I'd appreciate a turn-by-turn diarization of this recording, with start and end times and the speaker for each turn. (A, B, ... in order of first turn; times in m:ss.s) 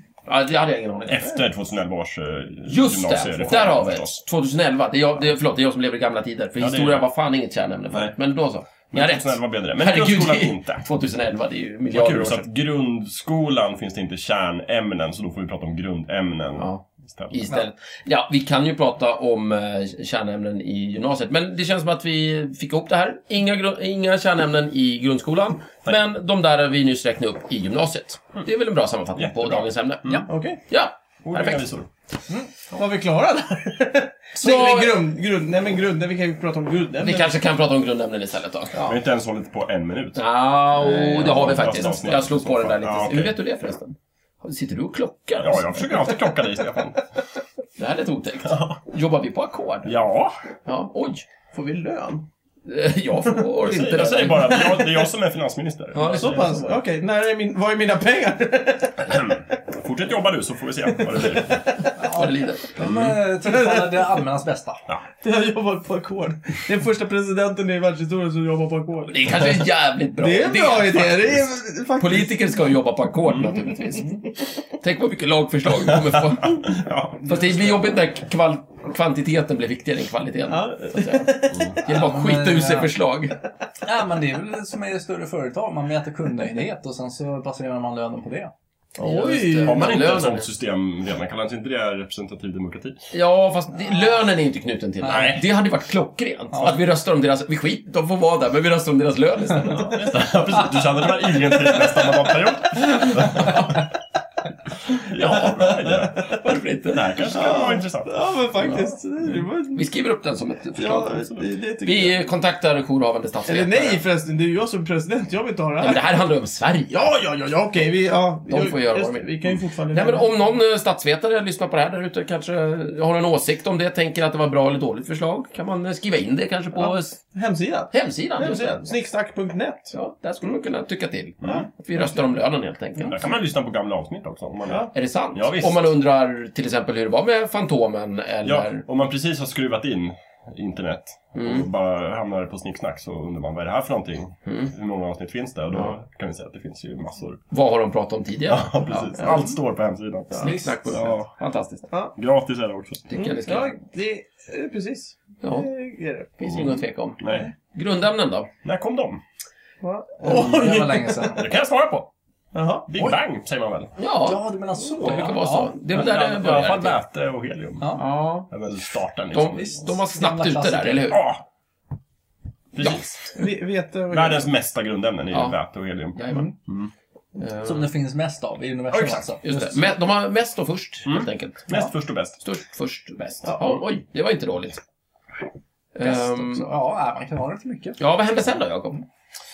0:00.3-0:01.4 A
0:01.1-0:04.2 B
0:02.7-0:12.5 A
0:06.6-0:07.0 B
0:08.9-0:10.9 B
0:11.9-0:17.4 B
0:16.6-0:31.6 A
0:29.2-0:30.2 B
0:30.3-0:30.6 C
0:31.2-0:31.9 B
0:32.7-0:37.4 C
0:34.4-0:35.0 A
0:37.0-0:38.7 A
0:38.8-0:40.2 B
0:40.2-0:46.2 A
0:40.8-0:41.5 C
0:41.2-0:43.4 B
0:45.4-0:47.0 B
0:47.8-0:49.9 A
0:48.4-0:48.8 B
0:49.8-0:50.4 B
0:50.7-0:51.2 A
0:51.5-0:52.3 C
0:52.6-0:54.7 A
0:53.6-0:56.6 B
0:54.5-0:55.0 C
0:55.9-0:56.6 A
0:56.1-0:59.5 C
0:59.1-1:01.6 B
1:01.0-1:01.9 C
1:02.0-1:04.8 D
1:02.1-1:02.8 A
1:02.8-1:03.2 B
1:03.4-1:04.2 C
1:05.2-1:09.4 C
1:09.1-1:11.4 A
1:10.2-1:12.7 C
1:12.0-1:14.2 A
1:14.8-1:16.7 A
1:15.8-1:17.8 B
1:17.2-1:23.4 A
1:20.5-1:21.7 C
1:21.8-1:22.9 D
1:23.8-1:28.5 D
1:29.0-1:29.8 C
1:29.0-1:30.5 A
1:29.6-1:33.1 B
1:33.1-1:40.0 A
1:35.0-1:35.4 B
1:35.0-1:35.3 D
1:39.7-1:43.9 B
1:43.3-1:43.7 A
1:44.9-1:46.2 B
1:45.3-1:46.3 C
1:46.4-1:47.3 A
1:46.9-1:48.1 B
1:47.3-1:49.8 C
1:49.7-1:54.0 A
1:50.8-1:52.2 C
1:53.5-1:56.0 C
1:55.8-1:57.0 A
1:56.9-2:00.3 C
1:58.5-1:59.3 A
1:59.9-2:07.2 A
2:06.8-2:10.6 C
2:07.9-2:08.8 A
2:09.9-2:13.2 A
2:11.4-2:11.7 B
2:13.0-2:15.9 B
2:14.7-2:14.9 C
2:14.9-2:18.8 A
2:18.4-2:27.4 B
2:21.4-2:21.7 A
2:24.4-2:24.7 A
2:27.5-2:29.5 A
2:28.5-2:31.3 B
2:29.2-2:29.5 C
2:30.4-2:31.0 D
2:30.4-2:31.9 A
2:31.9-2:32.1 C
2:32.2-2:33.1 B
2:33.1-2:33.8 A
2:33.2-2:36.4 C
2:35.4-2:35.7 A
2:36.4-2:38.5 A
2:36.5-2:37.5 B
2:38.6-2:39.2 B
2:39.8-2:41.4 C
2:40.2-2:41.4 D
2:41.4-2:42.1 B
2:42.5-2:42.9 C
2:42.9-2:43.9 B
2:44.0-2:47.0 A
2:44.3-2:45.8 D
2:45.9-2:48.0 B
2:47.8-2:48.1 D
2:48.0-2:48.5 A
2:48.5-2:49.8 B
2:49.3-2:51.2 A
2:49.6-2:51.1 D
2:51.1-2:51.4 B
2:52.7-2:53.1 B
2:52.8-2:53.4 A
2:53.3-2:54.5 C
2:54.1-2:56.9 B
2:55.3-2:55.6 A
2:56.2-2:56.5 A
2:56.3-2:56.5 D
2:57.4-2:57.9 A
2:57.6-3:00.0 D
2:58.9-2:59.3 B
2:59.4-3:01.7 A
3:01.1-3:02.4 B
3:02.4-3:04.8 A
3:03.4-3:03.8 C
3:06.0-3:06.7 A
3:06.0-3:08.0 D
3:08.0-3:09.0 A